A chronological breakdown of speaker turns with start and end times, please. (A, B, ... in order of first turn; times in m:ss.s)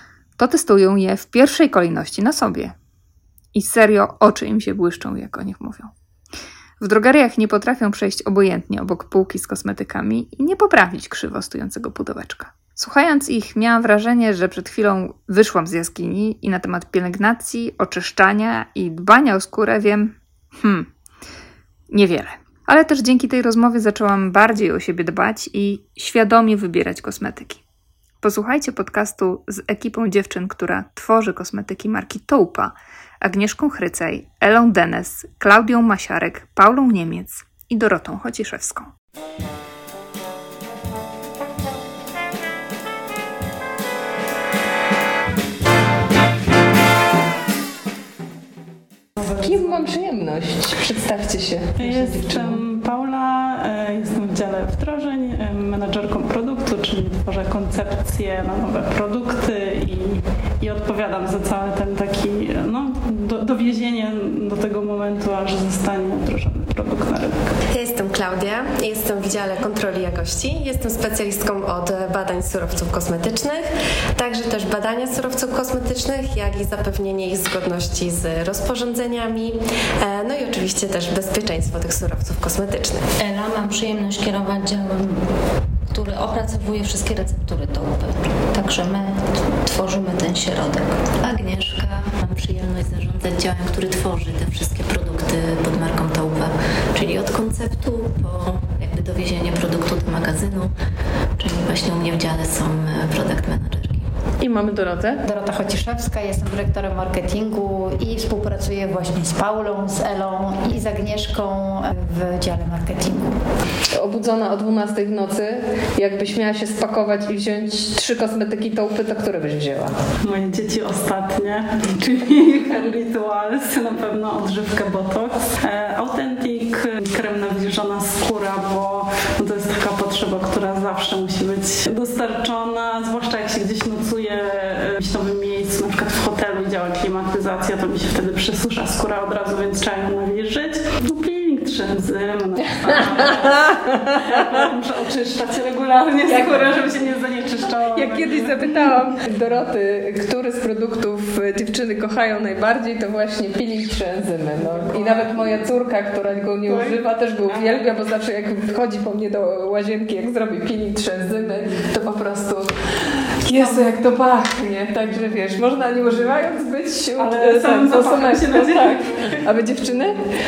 0:00.4-0:02.8 A
0:03.5-0:05.9 A
0:06.8-0:20.9 A
0:21.9-0:27.6 A
0:28.2-0:38.9 A
0:49.2-0:49.9 B
0:49.4-0:52.6 C
0:51.8-1:07.4 B
1:07.7-1:23.0 D
1:23.2-1:25.3 E
1:25.9-1:31.0 E
1:31.2-1:40.7 F
1:41.4-1:44.1 F
1:44.4-1:45.2 C
1:45.2-1:53.4 G
1:53.9-2:00.0 C
2:00.2-2:28.6 B
2:22.8-2:24.5 C
2:26.3-2:26.9 C
2:27.9-2:50.2 C
2:34.6-2:35.6 B
2:36.7-2:37.9 B
2:47.2-2:49.4 B